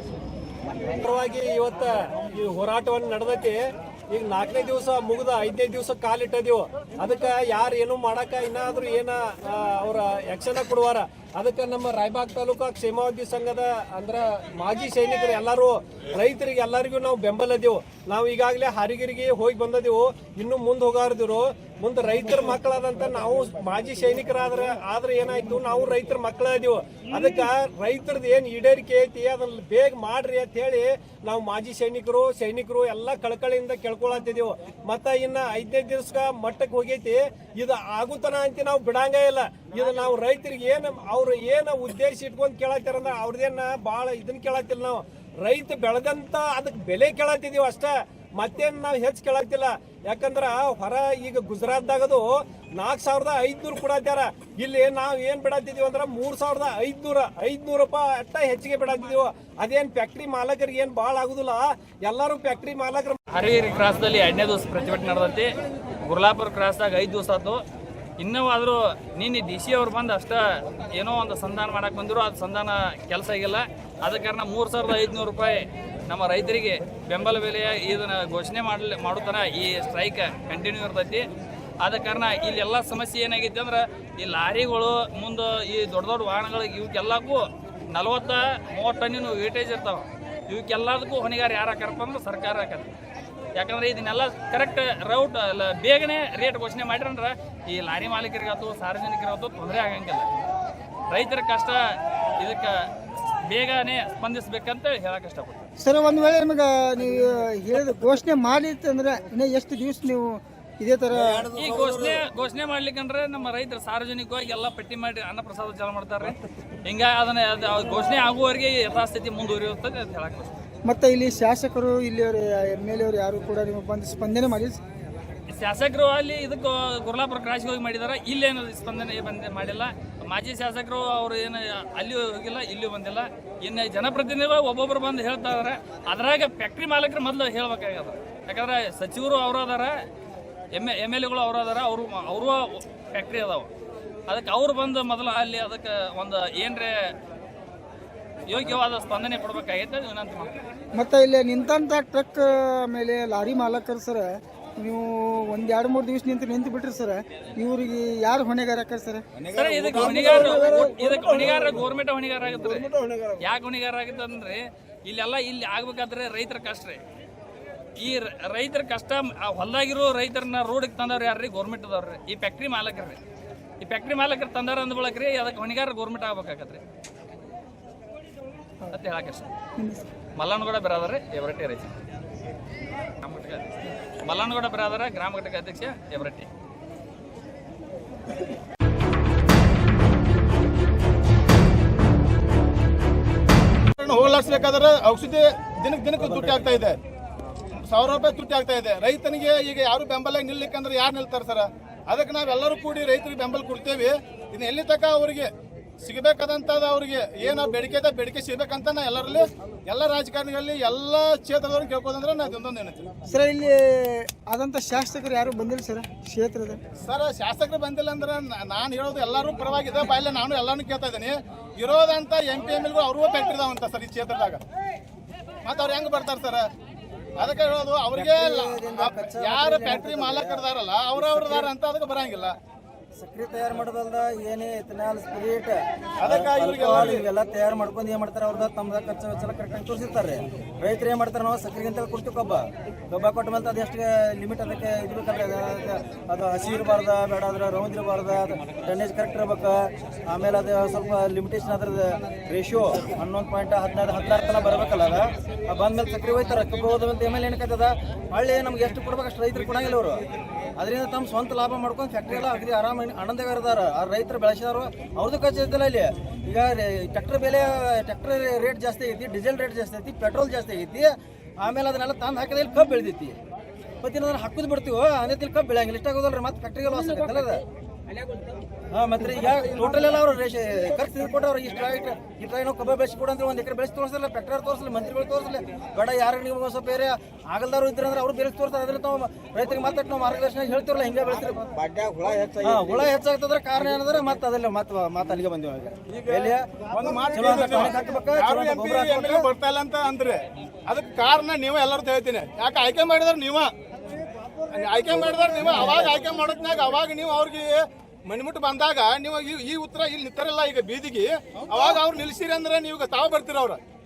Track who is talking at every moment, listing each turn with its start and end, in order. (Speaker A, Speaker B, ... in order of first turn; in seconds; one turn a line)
Speaker A: 0.9-63.2
Speaker B: 63.3-65.5
Speaker B: 66.0-67.6
Speaker B: 68.2-81.3
Speaker B: 81.8-92.9
Speaker B: 93.5-100.3
Speaker B: 101.1-101.8
Speaker B: 102.4-102.8
Speaker B: 103.5-105.6
Speaker C: 105.8-111.5
Speaker D: 111.1-112.2
Speaker B: 111.5-120.6
Speaker C: 120.9-124.8
Speaker B: 125.5-140.0
Speaker B: 140.7-143.7
Speaker B: 144.3-146.9
Speaker B: 148.5-150.6
Speaker C: 150.9-154.3
Speaker C: 154.8-159.2
Speaker B: 159.5-167.0
Speaker B: 168.0-173.2
Speaker B: 173.8-176.8
Speaker B: 178.9-179.5
Speaker C: 179.8-180.0
Speaker B: 180.4-181.9
Speaker B: 183.2-186.5
Speaker E: 194.0-197.0
Speaker D: 196.2-196.8
Speaker E: 197.9-205.5
Speaker E: 206.0-213.1
Speaker C: 213.3-216.8
Speaker E: 217.0-224.6
Speaker E: 225.6-226.6
Speaker E: 227.4-232.5
Speaker D: 228.1-231.7
Speaker D: 233.2-260.2
Speaker E: 236.2-237.2
Speaker D: 260.8-273.4
Speaker D: 274.0-277.6
Speaker D: 278.9-291.7
Speaker D: 292.6-299.5
Speaker E: 296.3-303.7
Speaker E: 304.7-313.8